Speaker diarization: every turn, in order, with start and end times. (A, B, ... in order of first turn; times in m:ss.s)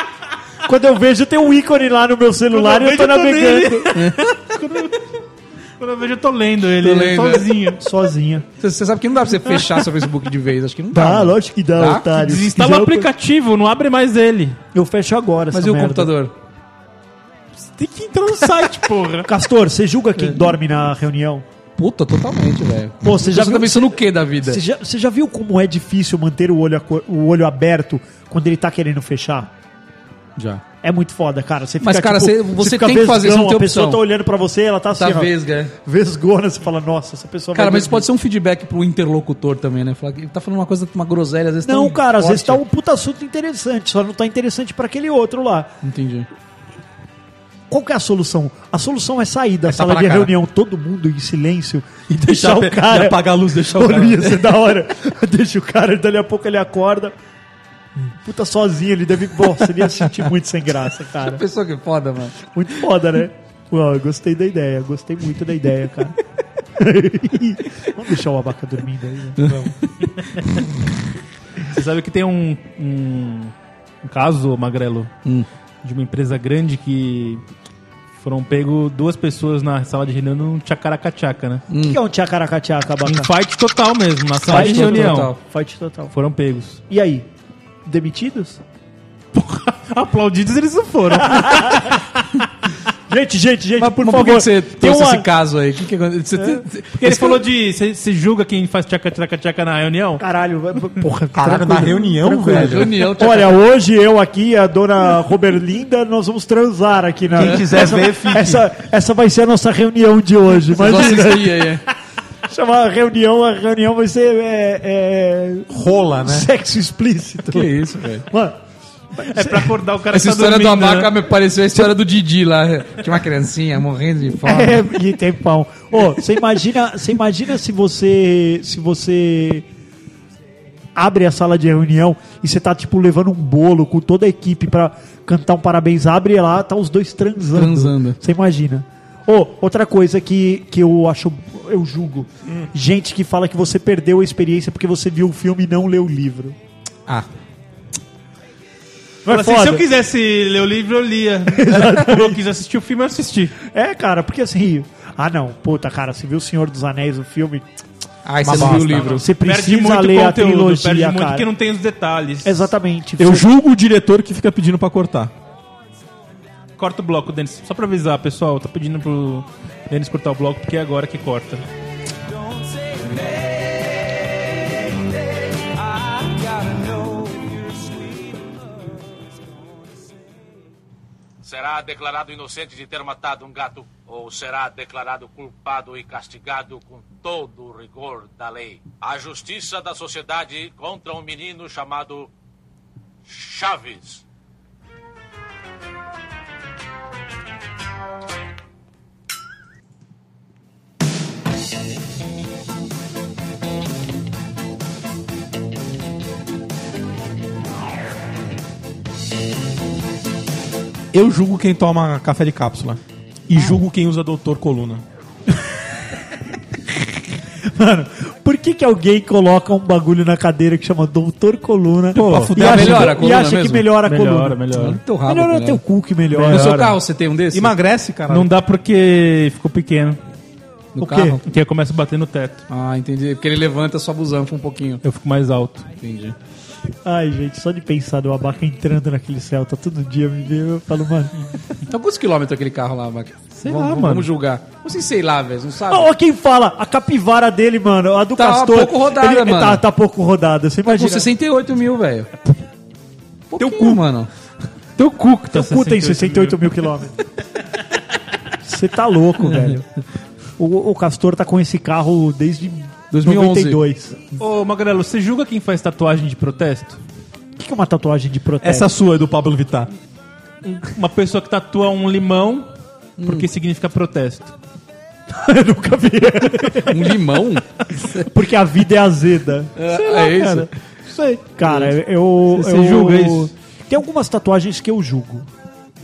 0:00.6-0:04.0 A
0:02.5-0:05.1 B
0:03.9-0:04.3 C
0:05.8-0:07.8 B
0:06.8-0:07.5 C
0:07.8-0:08.5 A
0:08.6-0:12.1 C
0:10.9-0:13.1 A
0:12.1-0:14.6 B
0:14.7-0:16.1 A
0:15.5-0:16.3 C
0:17.7-0:19.3 B
0:19.2-0:21.4 A
0:21.8-0:24.6 C
0:23.0-0:29.5 A
0:30.4-0:30.6 C
0:30.8-0:38.1 A
0:31.8-0:34.0 C
0:35.0-0:35.7 C
0:37.5-0:42.6 C
0:41.6-0:45.7 A
0:45.8-0:46.3 C
0:47.7-0:57.1 A
0:49.8-0:50.2 D
0:52.2-0:54.4 D
0:58.1-1:01.4 A
1:01.2-1:02.4 C
1:02.4-1:06.2 A
1:06.8-1:09.7 A
1:09.4-1:10.5 C
1:11.7-1:15.1 B
1:15.8-1:17.4 B
1:18.2-1:21.6 B
1:21.7-1:22.0 C
1:21.8-1:23.3 A
1:23.1-1:25.3 B
1:24.4-1:26.1 A
1:24.5-1:25.4 C
1:26.1-1:26.8 B
1:26.9-1:27.3 A
1:27.9-1:28.6 A
1:29.3-1:32.3 B
1:31.1-1:32.0 A
1:33.1-1:35.3 A
1:33.8-1:37.4 C
1:36.9-1:40.2 B
1:40.2-1:51.9 A
1:41.3-1:43.0 D
1:42.5-1:43.6 C
1:47.3-1:48.6 D
1:47.4-1:47.9 C
1:50.7-1:51.8 C
1:52.5-1:58.6 A
1:55.7-1:56.5 D
1:57.5-1:58.3 C
1:59.1-1:59.8 A
1:59.3-2:01.1 B
2:00.1-2:04.9 C
2:04.4-2:09.7 A
2:11.0-2:26.6 A
2:17.5-2:18.2 C
2:29.2-2:29.9 A
2:29.3-2:33.6 B
2:31.5-2:32.4 A
2:33.6-2:37.7 A
2:38.2-2:39.3 C
2:38.4-2:39.2 D
2:38.6-2:42.7 B
2:38.6-2:41.5 A
2:42.4-2:43.5 A
2:43.2-2:45.3 D
2:46.8-2:51.6 B
3:01.4-3:12.3 E
3:13.3-3:14.2 E
3:31.1-3:35.0 D
3:37.7-3:44.7 A
3:42.1-3:42.5 B
3:42.2-3:43.3 D
3:42.4-3:43.9 C
3:44.0-3:45.0 B
3:44.7-3:45.8 C
3:45.3-3:46.7 A
3:46.3-3:47.0 B
3:46.5-3:47.7 C
3:47.5-3:48.5 D
3:48.3-3:50.2 B
3:51.0-3:51.4 C
3:51.0-3:51.4 A
3:51.4-3:52.6 B
3:52.7-3:55.0 C
3:55.0-3:55.9 B
3:56.0-3:56.4 C
3:57.0-4:01.4 A
4:01.8-4:06.1 C
4:03.6-4:04.3 B
4:05.9-4:11.3 A
4:08.4-4:09.8 C
4:10.8-4:12.3 C
4:13.5-4:14.0 A
4:13.6-4:14.3 C
4:15.0-4:17.3 A
4:15.4-4:16.6 B
4:18.6-4:19.8 A
4:20.6-4:24.2 A
4:23.1-4:23.8 C
4:24.4-4:27.0 B
4:27.6-4:28.9 A
4:28.6-4:29.9 D
4:30.6-4:32.7 B
4:33.2-4:33.5 C
4:33.2-4:34.5 B
4:35.3-4:37.2 A
4:36.8-4:38.3 C
4:38.1-4:39.7 A
4:39.8-4:40.7 C
4:39.9-4:41.5 B
4:41.6-4:45.5 A
4:41.6-4:41.9 C
4:42.5-4:43.5 B